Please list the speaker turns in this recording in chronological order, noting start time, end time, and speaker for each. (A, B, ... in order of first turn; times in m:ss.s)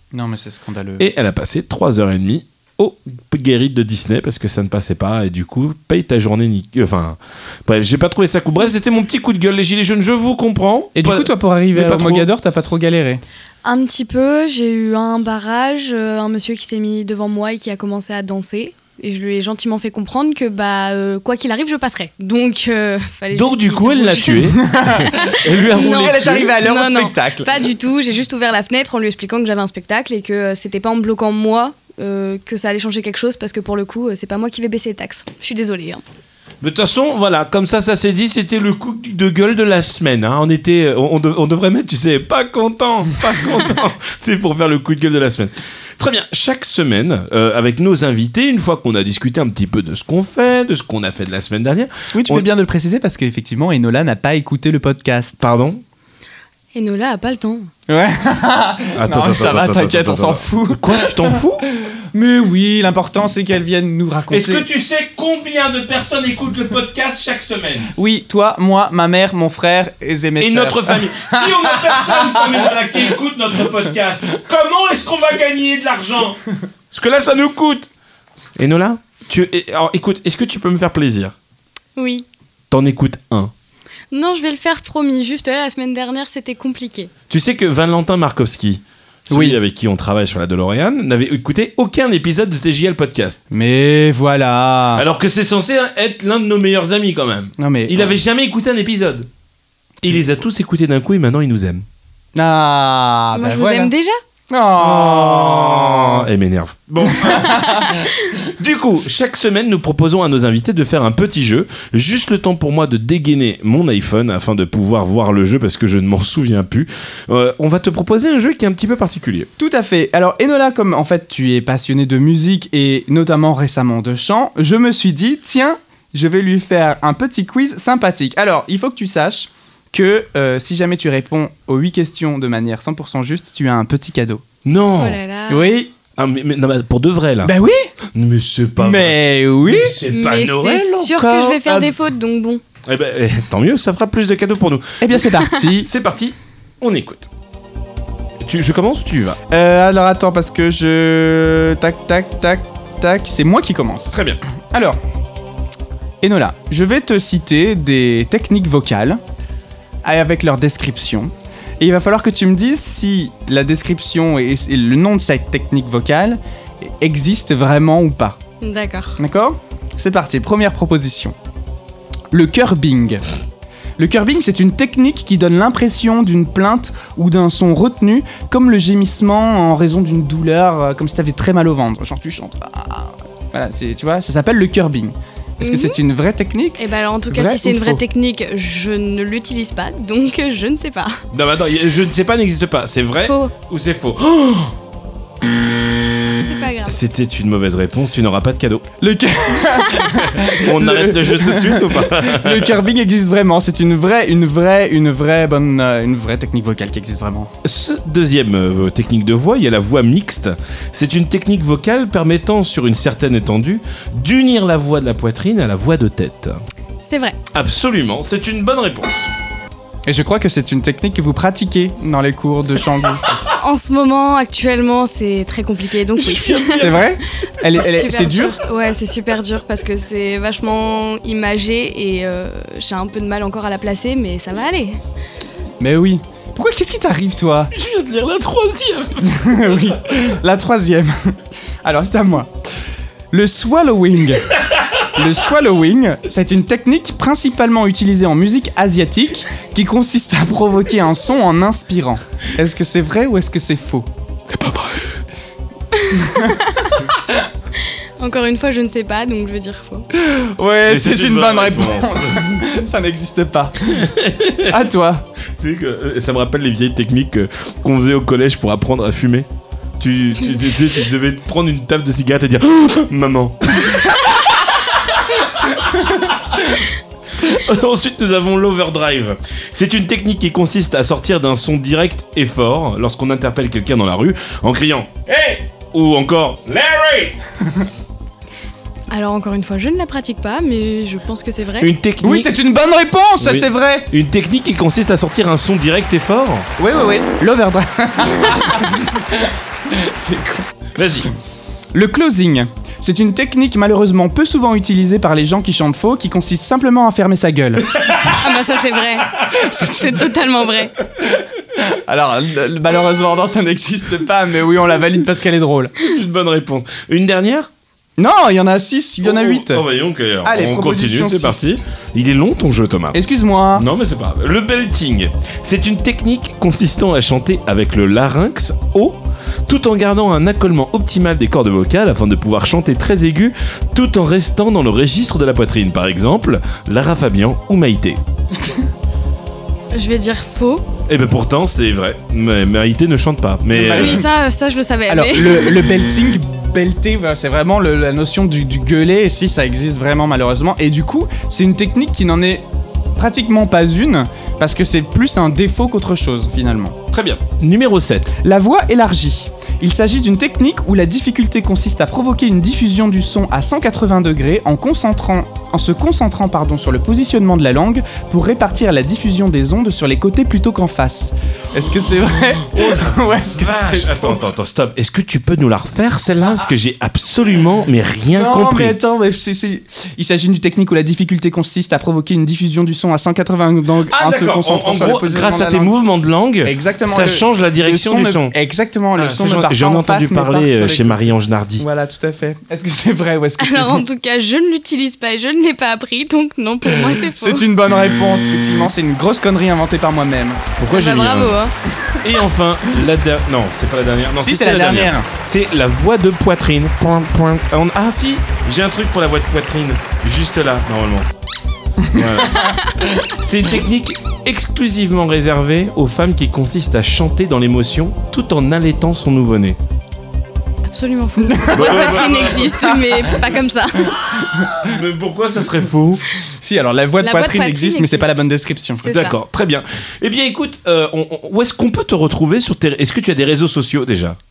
0:00.1-0:01.0 A
0:01.0-0:12.3 B
0:10.9-0:13.2 A
0:13.6-0:36.0 C
0:23.3-0:26.6 B
0:24.5-0:25.1 A
0:25.8-0:27.5 A
0:36.6-0:52.5 B
0:52.1-0:55.4 A
0:55.4-0:55.8 B
0:56.7-0:57.7 C
0:57.9-1:04.6 A
0:59.0-1:01.6 B
1:04.3-1:07.9 B
1:08.0-1:12.7 A
1:10.4-1:16.4 B
1:16.9-1:17.9 B
1:18.6-1:21.3 B
1:22.0-1:22.2 C
1:22.7-1:23.5 B
1:24.1-1:27.1 C
1:27.3-1:33.4 B
1:29.3-1:29.6 A
1:33.5-1:35.0 A
1:34.9-1:39.3 B
1:37.6-1:38.2 A
1:40.0-1:41.8 B
1:42.4-1:43.9 A
1:43.3-1:44.2 C
1:44.5-1:46.2 A
1:44.8-1:59.5 B
1:47.1-1:48.1 A
1:59.6-2:14.4 A
2:14.6-2:15.2 B
2:15.0-2:15.8 C
2:15.5-2:15.9 A
2:16.2-2:17.5 B
2:17.4-2:17.9 A
2:18.1-2:21.9 B
2:18.8-2:20.0 A
2:20.1-2:22.6 C
2:22.8-2:27.3 B
2:25.0-2:25.9 A
2:28.4-2:29.4 B
2:29.5-2:34.2 A
2:34.1-2:34.4 B
2:34.7-2:35.0 A
2:36.2-2:39.2 A
2:40.0-2:48.4 A
2:48.6-2:49.2 C
2:49.2-2:51.3 A
2:52.3-2:53.2 A
2:54.0-3:08.0 A
3:05.6-3:06.0 C
3:06.8-3:11.2 C
3:11.3-3:14.7 B
3:13.2-3:13.5 C
3:16.4-3:17.0 C
3:16.8-3:18.9 B
3:19.0-3:27.5 A
3:20.3-3:22.8 B
3:27.6-3:36.6 B
3:37.0-3:37.4 C
3:37.5-3:39.3 B
3:40.0-3:43.5 A
3:43.6-3:55.0 C
3:46.2-3:47.1 B
3:46.7-3:48.6 A
3:55.8-3:57.7 A
3:57.7-3:59.8 B
3:59.2-4:02.5 A
4:03.3-4:04.5 A
4:05.1-4:14.1 A
4:14.5-4:15.2 B
4:15.9-4:16.8 C
4:16.1-4:16.6 A
4:18.2-4:20.1 C
4:20.2-4:24.1 A
4:20.9-4:22.6 B
4:23.9-4:24.8 B
4:24.6-4:25.2 A
4:25.6-4:29.5 B
4:30.0-4:36.8 B
4:37.4-4:47.4 B
4:49.1-4:51.9 C
4:51.8-4:52.5 B
4:52.2-4:54.1 A
4:53.4-4:56.7 B
4:56.8-5:00.7 A
5:01.0-5:01.3 B
5:01.9-5:08.0 A
5:08.1-5:10.9 C
5:09.5-5:10.2 A
5:11.8-5:16.0 A
5:16.0-5:17.7 B
5:18.2-5:19.8 A
5:19.2-5:23.2 B
5:20.4-5:21.7 A
5:23.1-5:23.8 A
5:23.7-5:38.2 B
5:39.9-5:40.8 C
5:41.1-5:44.2 B
5:43.7-5:44.2 A
5:43.9-5:45.8 C
5:45.1-5:52.6 A
5:53.2-5:57.0 A
5:57.1-5:58.4 B
5:58.4-6:14.4 A
6:12.7-6:19.0 B
6:18.3-6:25.9 A
6:24.1-6:28.5 B
6:26.6-6:34.0 A
6:29.2-6:31.9 B
6:33.6-6:37.7 C
6:36.9-6:40.6 A
6:40.8-6:41.6 B
6:40.9-6:41.7 C
6:42.2-6:51.3 B
6:44.4-6:45.3 A
6:52.1-6:53.2 A
6:52.1-6:59.8 B
7:00.9-7:04.2 C
7:01.4-7:03.3 A
7:01.7-7:02.7 B
7:04.3-7:04.9 A
7:04.8-7:06.2 B
7:06.4-7:09.0 A
7:07.2-7:08.4 C
7:09.0-7:09.4 C
7:09.0-7:14.4 B